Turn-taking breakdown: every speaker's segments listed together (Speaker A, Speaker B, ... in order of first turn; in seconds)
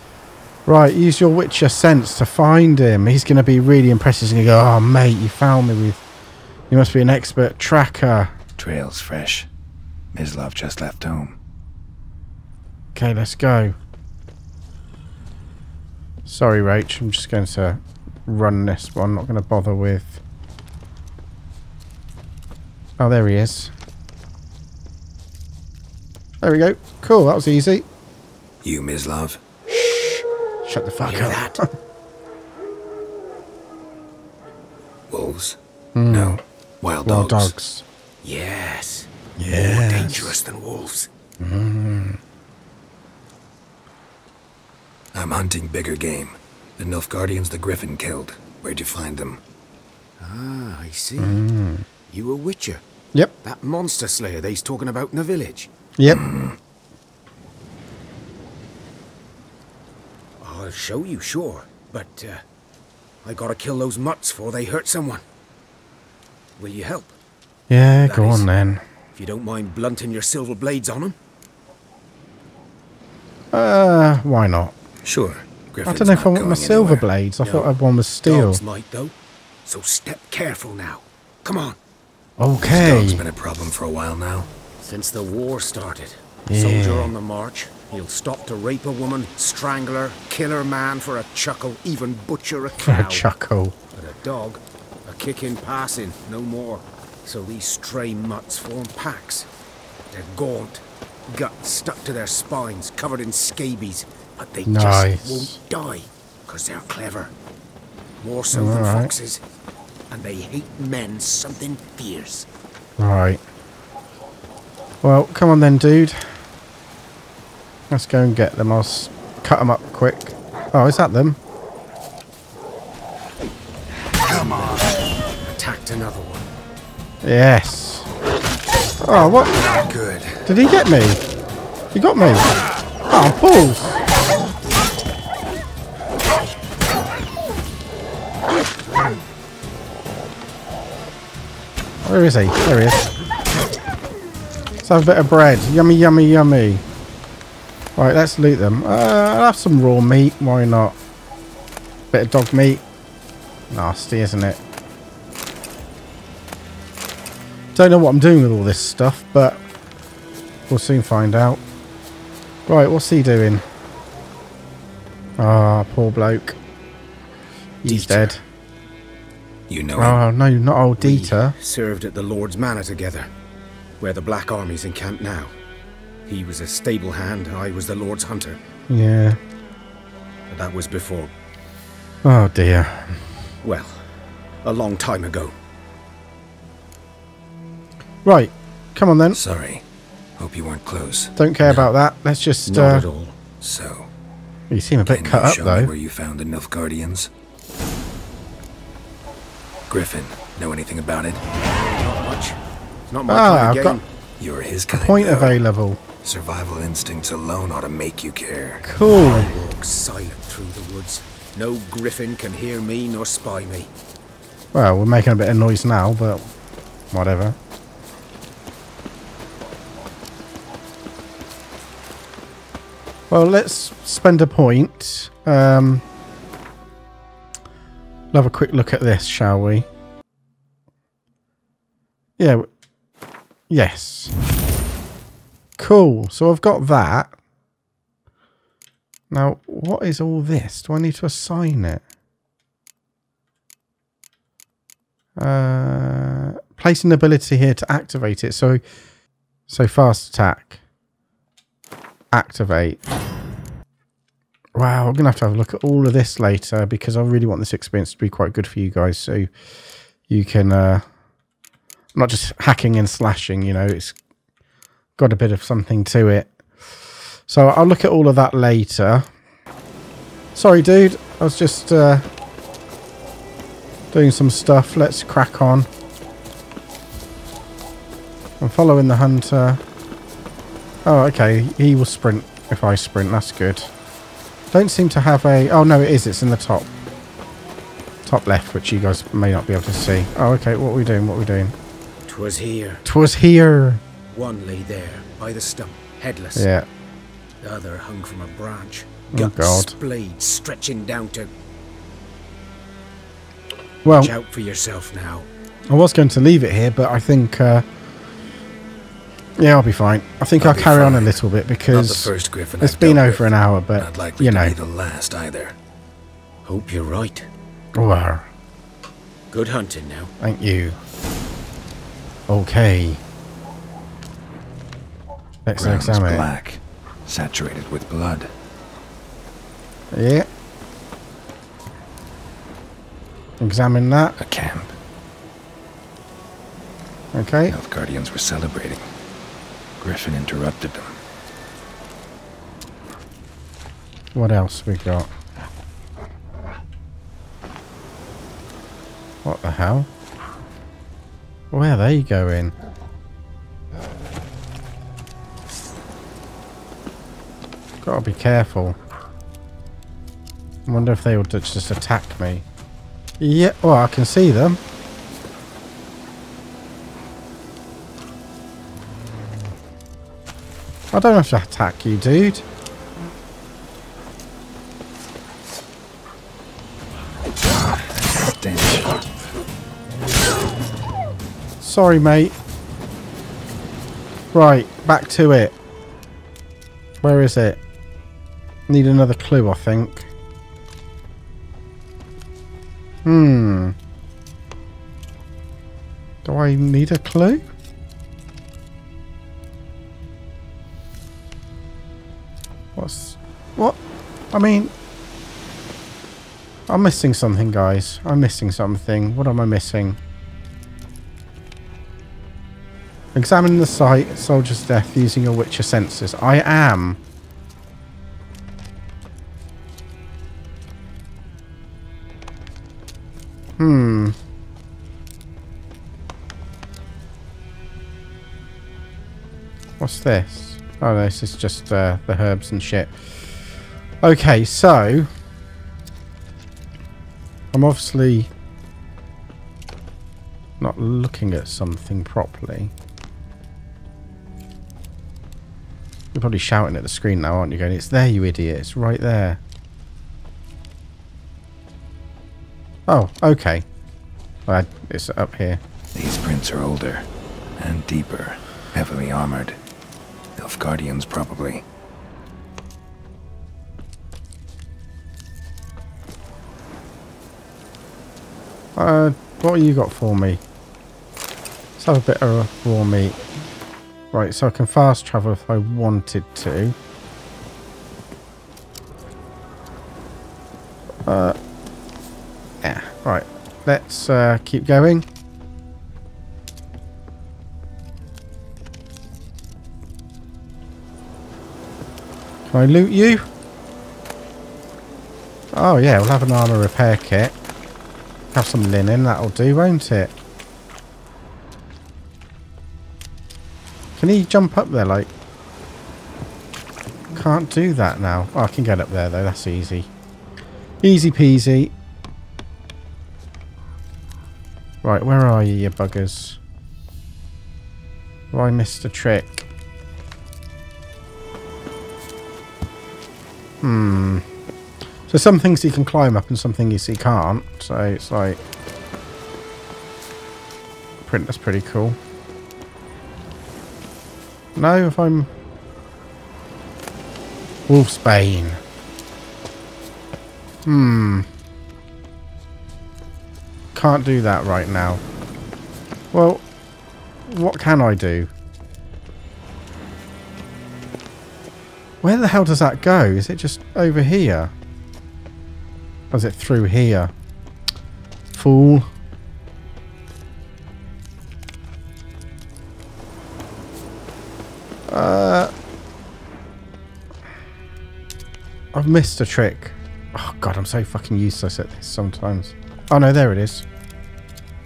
Speaker A: 0.7-6.0, 6.7-8.3, 12.9-13.8, 16.3-20.2, 23.0-23.7, 26.4-27.9, 30.6-31.7, 36.0-36.4, 37.0-37.8, 39.4-40.4, 41.4-42.2, 51.2-51.9, 56.0-56.2, 67.7-68.8, 73.5-74.8, 75.9-78.6, 82.4-83.2, 86.5-87.1, 92.8-93.7, 104.7-105.6, 108.5-109.1, 113.0-113.4, 115.0-116.3, 117.9-121.4, 127.2-128.1, 129.1-129.6, 130.5-131.2, 131.9-132.5, 133.1-134.0, 142.1-143.1, 144.8-146.8, 148.0-151.0, 152.1-152.8, 153.7-154.6, 157.8-159.6, 160.7-161.6, 162.7-163.6, 165.4-166.6, 167.8-168.4, 170.0-171.6, 178.9-179.4, 182.2-183.2, 188.2-189.4, 191.4-193.1, 194.7-195.9, 203.3-204.0, 204.9-206.0, 208.8-209.5, 214.7-216.4, 217.1-217.6, 223.3-226.0, 228.3-229.9, 232.4-232.7, 233.7-234.3, 235.8-237.3, 239.3-242.0, 245.4-248.8, 249.7-250.8, 252.3-253.0, 254.8-259.5, 260.3-261.0, 262.1-264.2, 265.2-266.5, 267.5-269.3, 270.6-272.3, 274.1-275.9, 278.6-279.8, 281.1-283.9, 284.7-286.9, 288.3-291.8, 293.1-294.0, 296.6-296.9, 299.3-299.9, 304.1-304.3, 305.9-307.9, 309.6-314.8, 317.9-318.5, 320.4-321.0, 322.5-323.2, 325.7-326.5, 330.1-330.5, 333.6-334.4, 337.3-337.7, 344.4-345.3, 349.4-350.1, 351.7-352.7, 358.0-359.0, 360.9-362.6, 363.4-364.8, 371.1-372.6, 381.8-382.6, 384.5-385.7, 387.2-387.8, 388.9-390.3, 393.2-393.9, 396.4-397.6, 403.0-404.0, 404.5-404.9, 406.9-410.2, 413.4-417.2, 423.8-424.4, 430.0-433.1, 434.2-435.3, 437.7-438.5, 440.8-442.9, 446.3-449.6, 453.1-453.9, 454.7-455.8, 469.0-470.6, 472.0-473.4, 474.3-476.9, 481.3-481.6, 482.8-485.3, 492.7-493.5, 495.7-497.5, 498.5-500.3, 504.2-505.3, 507.4-510.1, 511.0-511.9, 515.0-516.6, 518.5-519.6, 523.8-524.5, 525.3-528.6, 531.3-532.2, 534.8-535.5, 537.9-538.8, 540.9-541.5, 543.9-545.2, 546.3-546.6, 547.5-548.5, 552.2-554.7, 556.3-557.3, 558.5-559.1, 565.1-565.7, 568.9-573.9
Speaker B: 8.6-9.5, 10.1-11.4, 28.6-29.4, 35.1-37.5, 45.1-49.4, 56.1-56.6, 75.0-77.1, 82.6-84.5, 124.2-125.0, 129.2-130.5, 169.7-170.2, 189.3-189.8, 190.4-191.9, 193.6-194.1, 195.1-197.3, 199.9-201.4, 204.4-205.6, 206.2-208.8, 310.6-315.8, 325.8-328.5, 334.4-335.0, 337.7-339.1, 340.0-341.1, 377.7-379.3, 456.1-457.3, 457.8-459.8, 460.6-461.8
Speaker C: 31.0-31.6, 38.2-41.1, 50.2-51.4, 52.1-52.8, 53.4-55.7, 60.4-62.4, 63.2-65.2, 66.6-67.2, 68.0-68.5, 69.2-71.2, 77.4-77.7, 78.2-79.1, 79.7-81.8, 84.8-93.3, 93.9-99.5, 100.1-107.3, 108.2-109.4, 110.1-112.5, 125.4-126.5, 167.8-168.3, 171.0-173.3, 174.0-175.5, 176.3-178.6, 180.5-181.3, 183.6-184.1, 184.6-185.5, 192.7-193.3, 201.6-202.6, 203.1-204.1, 209.1-213.9, 292.3-293.0, 294.3-296.7, 297.6-301.5, 304.1-305.5, 316.6-317.5, 319.5-320.3